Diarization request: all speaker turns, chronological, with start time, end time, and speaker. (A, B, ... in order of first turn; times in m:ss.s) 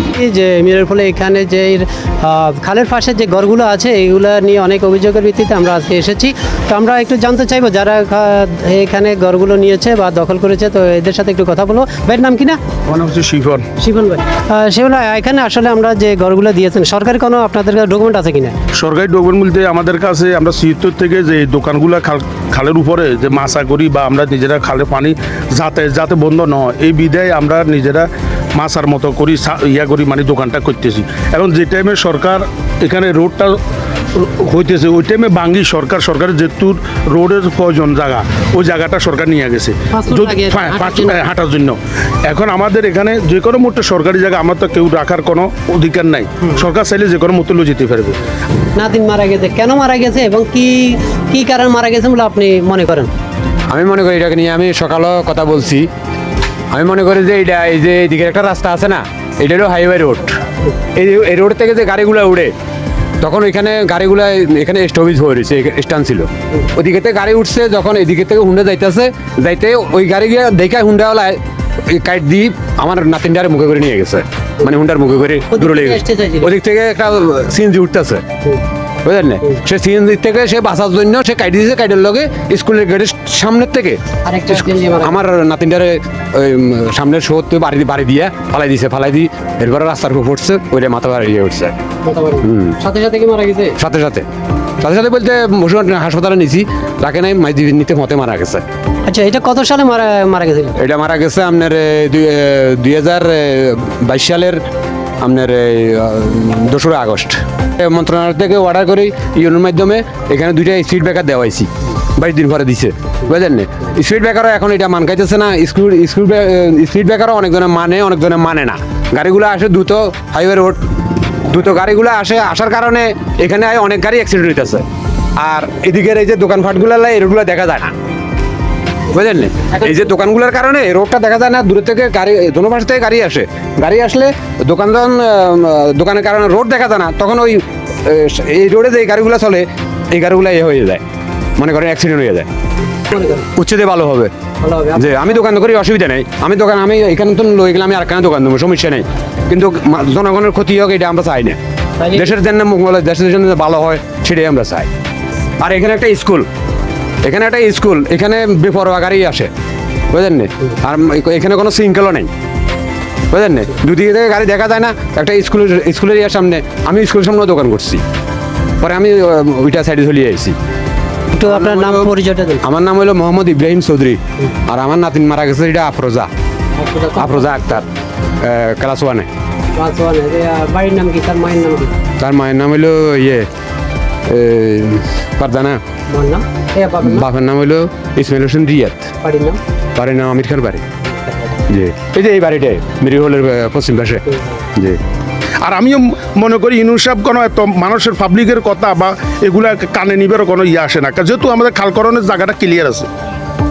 0:00.1-0:12.6 A
0:12.9-0:13.7 B
0:13.8-0:18.6 A
0:18.7-0:33.6 B
0:34.1-0:48.2 B
0:39.9-0:41.2 A
0:48.8-0:53.1 A
0:53.7-0:55.9 C
0:56.7-1:00.4 C
1:01.0-1:02.5 C
1:03.2-1:18.2 C
1:15.5-1:16.5 A
1:19.0-1:31.7 C
1:24.2-1:25.2 A
1:32.0-1:33.8 A
1:32.4-1:32.8 C
1:33.8-1:34.3 C
1:34.8-1:38.6 C
1:39.1-1:40.8 A
1:40.8-1:44.6 C
1:45.2-2:00.8 C
2:01.5-2:04.8 C
2:05.4-2:07.9 C
2:09.1-2:21.0 C
2:21.6-2:22.5 C
2:23.1-2:23.5 A
2:23.5-2:24.3 C
2:24.6-2:25.4 A
2:25.0-2:31.6 C
2:32.0-2:32.3 A
2:32.1-2:34.9 C
2:35.6-2:36.5 C
2:37.2-2:39.5 C
2:40.1-2:42.3 C
2:43.3-2:48.0 C
2:48.8-2:50.6 C
2:51.3-2:52.6 A
2:51.4-2:52.1 C
2:52.6-2:56.3 C
2:56.8-2:57.8 A
2:57.2-2:57.9 C
2:58.4-2:59.3 C
2:59.8-3:02.0 A
3:02.2-3:03.5 C
3:04.3-3:05.8 C
3:06.1-3:07.3 A
3:07.0-3:09.1 C
3:09.2-3:09.6 A
3:10.0-3:10.8 C
3:11.1-3:11.6 A
3:11.7-3:14.2 C
3:14.3-3:14.6 A
3:15.6-3:23.1 B